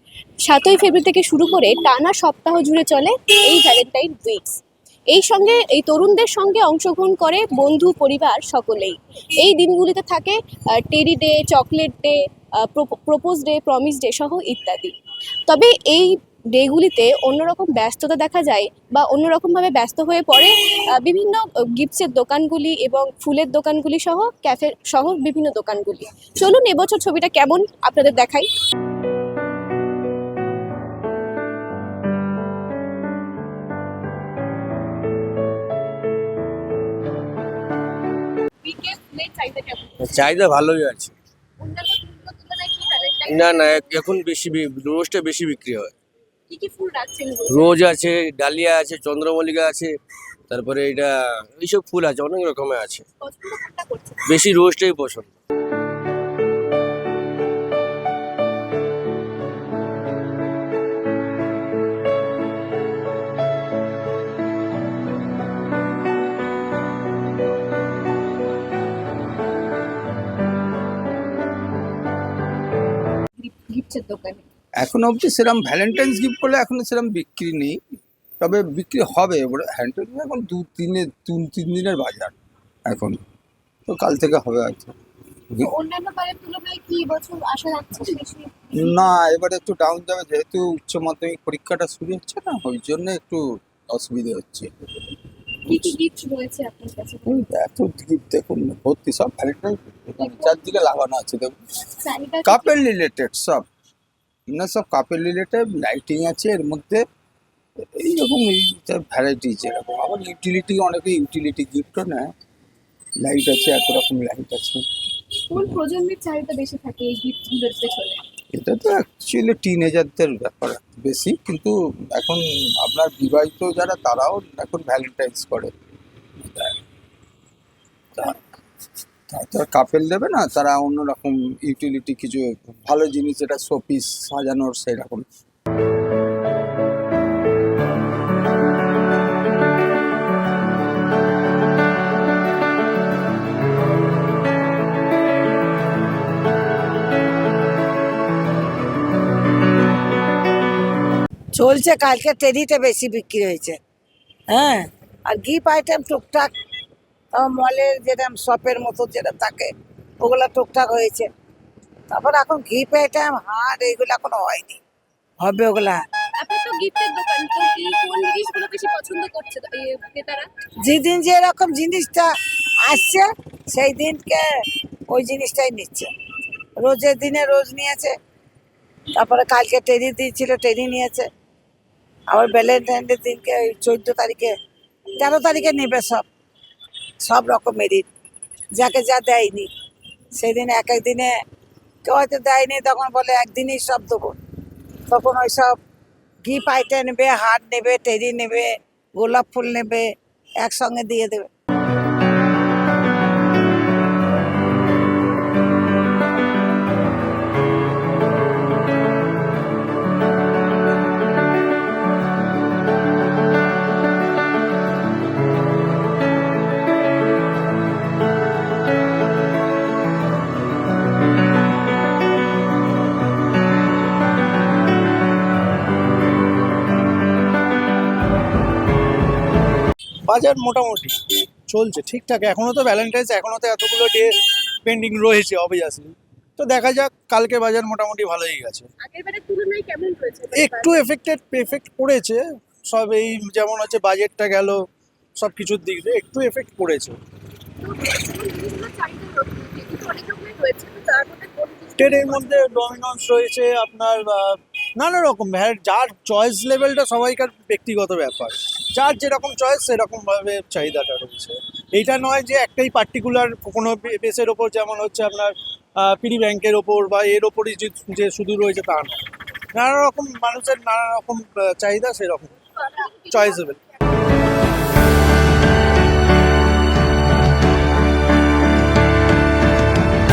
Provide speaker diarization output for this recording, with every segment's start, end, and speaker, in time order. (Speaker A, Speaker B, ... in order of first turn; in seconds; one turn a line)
Speaker A: 0.4-14.9
Speaker A: 15.5-28.5
Speaker A: 38.6-40.0
Speaker B: 40.0-41.1
Speaker A: 41.6-44.2
Speaker B: 43.3-46.0
Speaker A: 46.5-47.8
Speaker B: 47.5-53.0
Speaker A: 53.2-54.4
Speaker B: 54.3-55.3
Speaker A: 73.4-74.5
Speaker C: 74.8-77.8
Speaker C: 78.4-82.4
Speaker C: 82.9-83.2
Speaker C: 83.9-84.9
Speaker A: 85.6-89.0
Speaker C: 88.8-94.7
Speaker A: 95.6-97.5
Speaker C: 97.3-101.6
Speaker A: 100.2-100.8
Speaker A: 102.0-102.8
Speaker C: 102.4-103.7
Speaker C: 104.5-107.0
Speaker C: 108.0-112.3
Speaker C: 113.2-114.8
Speaker A: 115.5-118.2
Speaker C: 118.5-125.7
Speaker C: 126.4-126.8
Speaker C: 128.1-128.4
Speaker C: 129.3-135.3
Speaker D: 151.6-153.8
Speaker D: 154.5-156.5
Speaker D: 157.3-159.7
Speaker D: 160.2-161.3
Speaker D: 162.1-164.8
Speaker D: 165.4-166.0
Speaker A: 166.4-170.5
Speaker D: 170.8-172.3
Speaker D: 172.8-174.4
Speaker D: 175.1-176.1
Speaker D: 176.8-178.1
Speaker D: 179.2-181.3
Speaker D: 182.3-184.5
Speaker D: 185.2-186.2
Speaker D: 187.2-188.1
Speaker D: 188.8-189.7
Speaker D: 190.4-191.3
Speaker D: 192.1-194.3
Speaker D: 195.1-195.8
Speaker D: 196.4-201.5
Speaker E: 230.3-238.9
Speaker A: 239.0-241.1
Speaker E: 240.5-244.9
Speaker E: 245.4-247.2
Speaker A: 247.8-253.0
Speaker E: 252.0-269.2
Speaker E: 269.7-272.6
Speaker A: 272.8-273.8
Speaker E: 273.3-273.8